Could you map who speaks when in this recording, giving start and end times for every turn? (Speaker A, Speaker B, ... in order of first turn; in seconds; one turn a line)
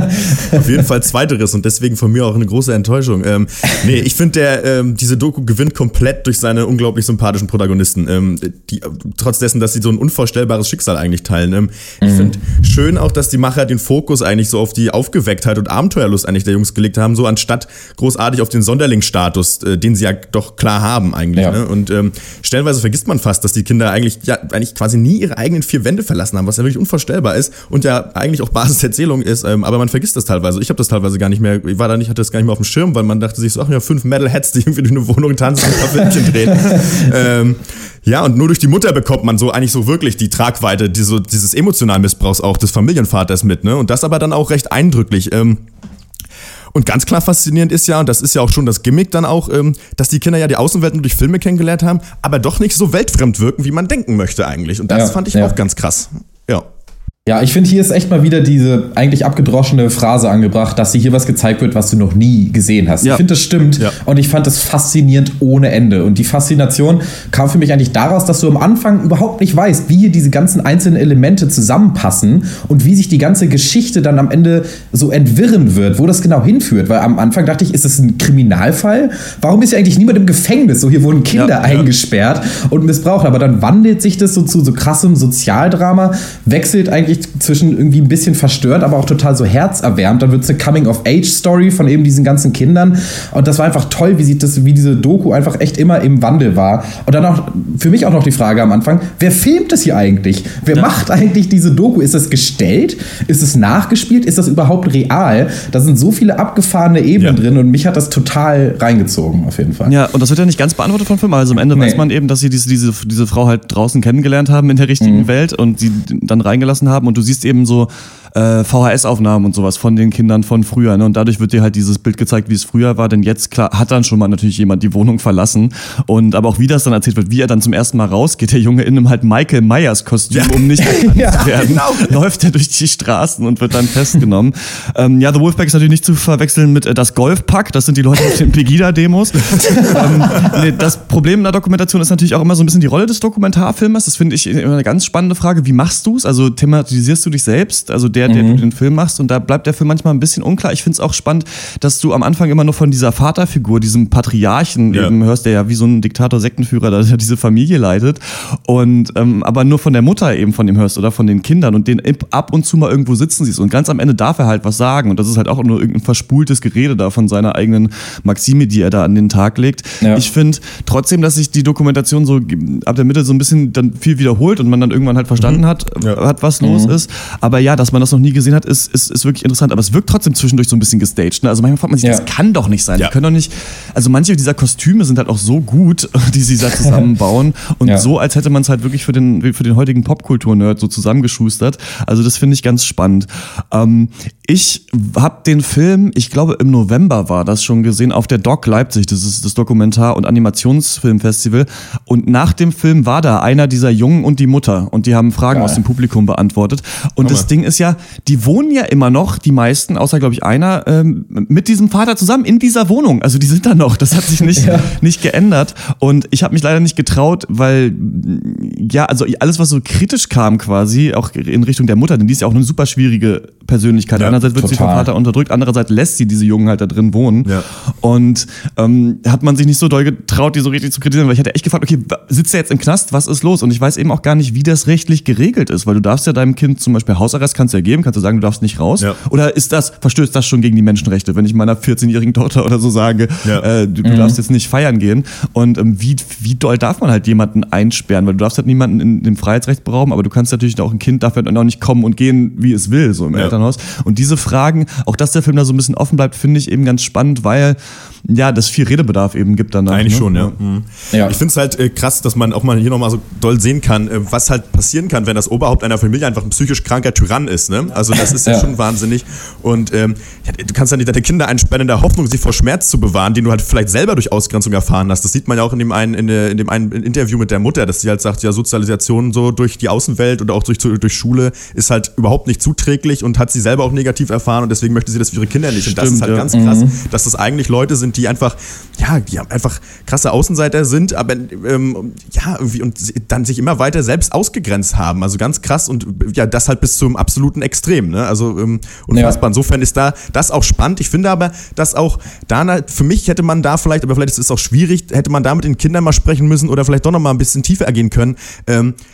Speaker A: 0.5-45.6
Speaker B: 12.0-12.3
Speaker B: 36.5-36.9
Speaker A: 46.7-56.6
Speaker B: 54.9-55.5
Speaker B: 57.2-109.9
Speaker C: 81.3-81.8
Speaker C: 109.8-227.5
Speaker B: 111.7-112.0
Speaker B: 115.0-115.3
Speaker A: 130.3-130.7
Speaker B: 130.9-131.6
Speaker A: 131.2-132.1
Speaker A: 139.6-140.5
Speaker B: 148.3-148.6
Speaker A: 175.4-176.2
Speaker B: 176.6-176.9
Speaker B: 205.5-205.8
Speaker B: 214.6-214.9
Speaker B: 224.2-225.1
Speaker C: 228.0-260.5
Speaker B: 244.0-244.4
Speaker A: 259.9-308.9
Speaker B: 261.1-261.4
Speaker B: 268.4-268.7
Speaker C: 285.8-286.4
Speaker B: 286.5-287.0
Speaker B: 299.1-299.4